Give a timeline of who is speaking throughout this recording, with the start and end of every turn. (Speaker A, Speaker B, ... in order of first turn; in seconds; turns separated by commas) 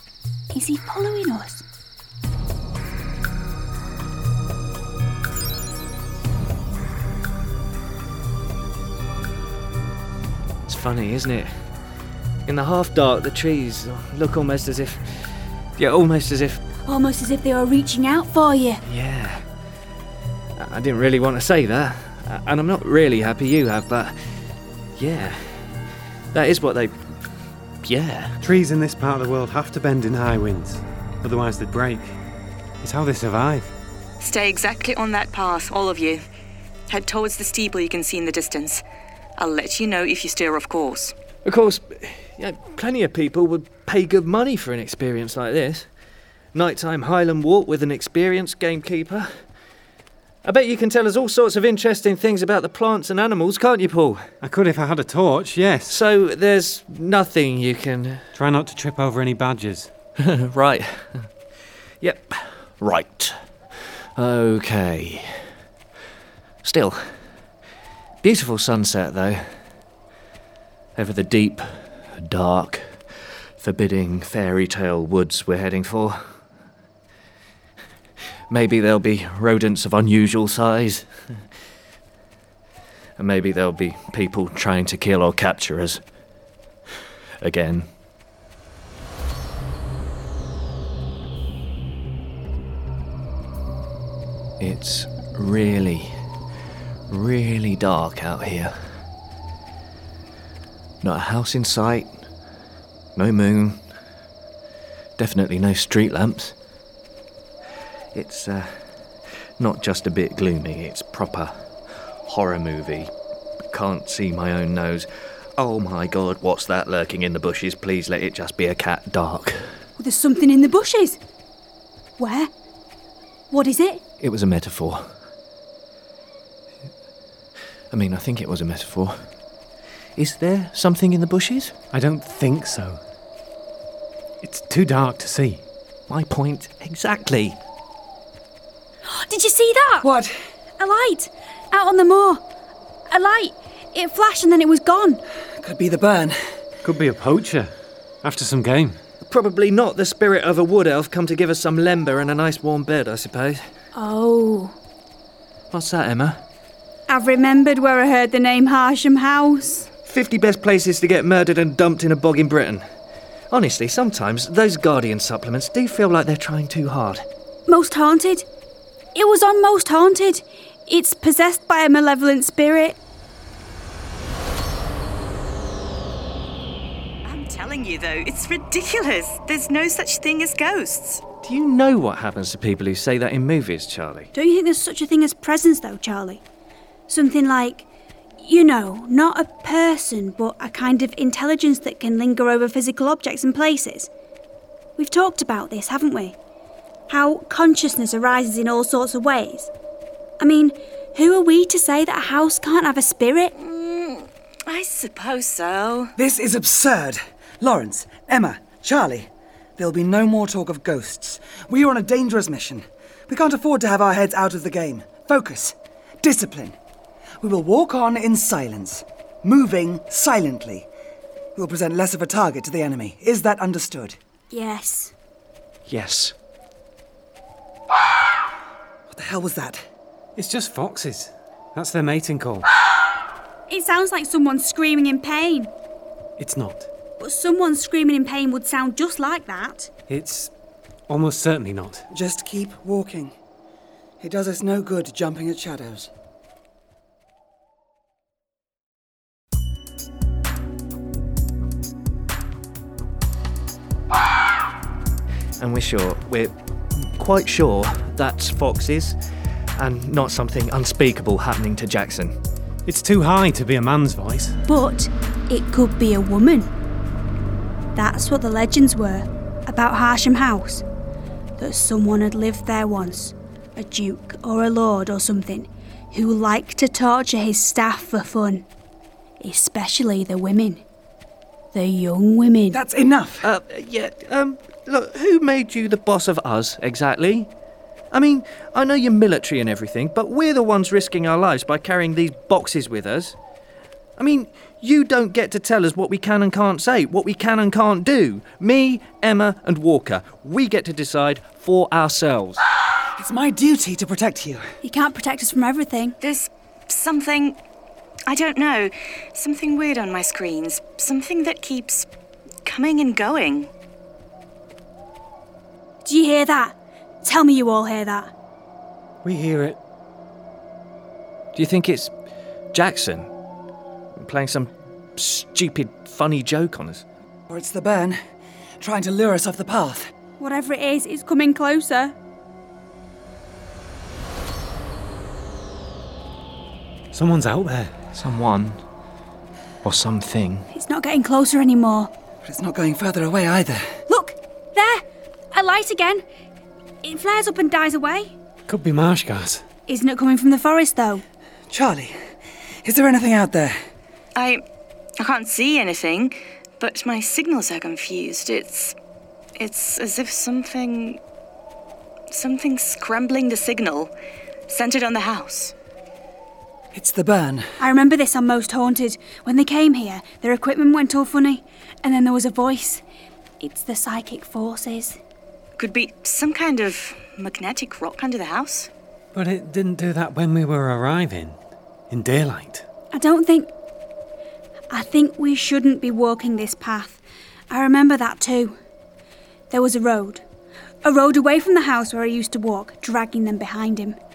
Speaker A: 0.5-1.6, Speaker B: 10.7-11.7, Speaker B: 12.5-16.6, Speaker A: 16.9-18.8, Speaker B: 18.9-19.4, Speaker B: 20.6-25.8, Speaker B: 26.3-28.4, Speaker C: 28.4-32.2, Speaker C: 32.8-33.7, Speaker D: 34.2-36.2, Speaker D: 36.9-38.8, Speaker D: 39.4-41.1, Speaker B: 41.4-45.9, Speaker B: 46.5-49.5, Speaker B: 50.4-54.3, Speaker C: 54.4-56.0, Speaker B: 55.9-58.3, Speaker C: 58.3-59.9, Speaker B: 60.2-61.3, Speaker B: 62.0-65.5, Speaker B: 66.6-67.3, Speaker B: 68.2-69.6, Speaker B: 71.0-76.4, Speaker B: 78.5-81.5, Speaker B: 83.2-86.0, Speaker B: 87.4-87.9, Speaker B: 94.6-96.2, Speaker B: 97.1-99.0, Speaker B: 101.0-102.2, Speaker B: 103.1-103.8, Speaker B: 105.2-106.5, Speaker B: 108.1-113.1, Speaker B: 113.7-119.8, Speaker A: 120.0-121.2, Speaker A: 122.2-122.5, Speaker A: 123.5-124.0, Speaker B: 124.2-125.2, Speaker B: 127.9-129.3, Speaker B: 130.2-131.8, Speaker C: 131.9-133.0, Speaker C: 134.4-135.6, Speaker B: 136.1-137.6, Speaker A: 139.0-140.1, Speaker E: 140.0-140.3, Speaker A: 140.8-142.4, Speaker A: 143.1-145.2, Speaker E: 145.6-146.4, Speaker C: 146.8-149.0, Speaker B: 149.2-153.7, Speaker A: 153.9-154.8, Speaker B: 155.7-156.4, Speaker A: 157.1-159.9, Speaker B: 160.0-162.9, Speaker B: 163.5-167.3, Speaker A: 167.7-168.5, Speaker A: 169.1-173.0, Speaker D: 177.2-181.2, Speaker B: 181.4-184.3, Speaker A: 184.3-186.4, Speaker A: 187.1-187.9, Speaker A: 188.4-194.1, Speaker A: 195.0-196.4, Speaker A: 197.1-199.7, Speaker A: 200.4-203.5, Speaker D: 203.5-206.1, Speaker E: 206.2-216.8, Speaker E: 217.4-220.9, Speaker E: 221.6-224.2, Speaker A: 224.5-225.1, Speaker B: 225.9-226.4, Speaker E: 229.1-229.8, Speaker C: 230.4-232.7, Speaker A: 233.7-235.7, Speaker C: 236.4-236.9, Speaker A: 237.2-239.9, Speaker C: 240.1-240.5, Speaker C: 241.1-242.1, Speaker E: 242.1-243.3, Speaker E: 244.2-246.1, Speaker B: 255.6-259.2, Speaker B: 259.8-262.4, Speaker C: 262.9-264.6, Speaker A: 264.7-266.7, Speaker A: 267.9-270.8, Speaker A: 271.6-278.7, Speaker A: 279.4-280.8, Speaker A: 281.7-282.8, Speaker E: 282.7-283.5, Speaker B: 283.4-287.5, Speaker B: 288.1-293.4, Speaker B: 294.2-302.6, Speaker E: 303.2-304.6, Speaker A: 304.8-306.2, Speaker D: 306.2-307.6, Speaker D: 308.3-312.1, Speaker D: 312.6-313.7, Speaker A: 316.0-318.3, Speaker C: 319.2-319.8, Speaker B: 321.5-322.1, Speaker B: 322.7-323.3, Speaker B: 324.1-327.0, Speaker E: 327.5-328.2, Speaker E: 328.8-330.1, Speaker A: 330.4-332.1, Speaker C: 337.1-337.9, Speaker B: 338.1-338.8, Speaker B: 339.8-340.7, Speaker A: 340.7-342.1, Speaker E: 342.4-343.9, Speaker A: 344.1-346.2, Speaker A: 347.0-348.3, Speaker C: 348.7-349.6, Speaker A: 349.9-351.2, Speaker E: 351.7-352.2, Speaker E: 352.8-353.8, Speaker D: 354.4-354.6, Speaker D: 355.2-359.0, Speaker D: 359.6-361.2, Speaker D: 362.3-364.1, Speaker D: 364.7-365.7, Speaker E: 366.9-367.7, Speaker A: 367.8-373.0, Speaker A: 373.6-375.2, Speaker D: 375.8-378.9, Speaker C: 379.3-381.6, Speaker C: 382.1-382.9, Speaker A: 383.1-383.7, Speaker A: 384.9-388.8, Speaker A: 389.7-390.4, Speaker A: 391.0-394.2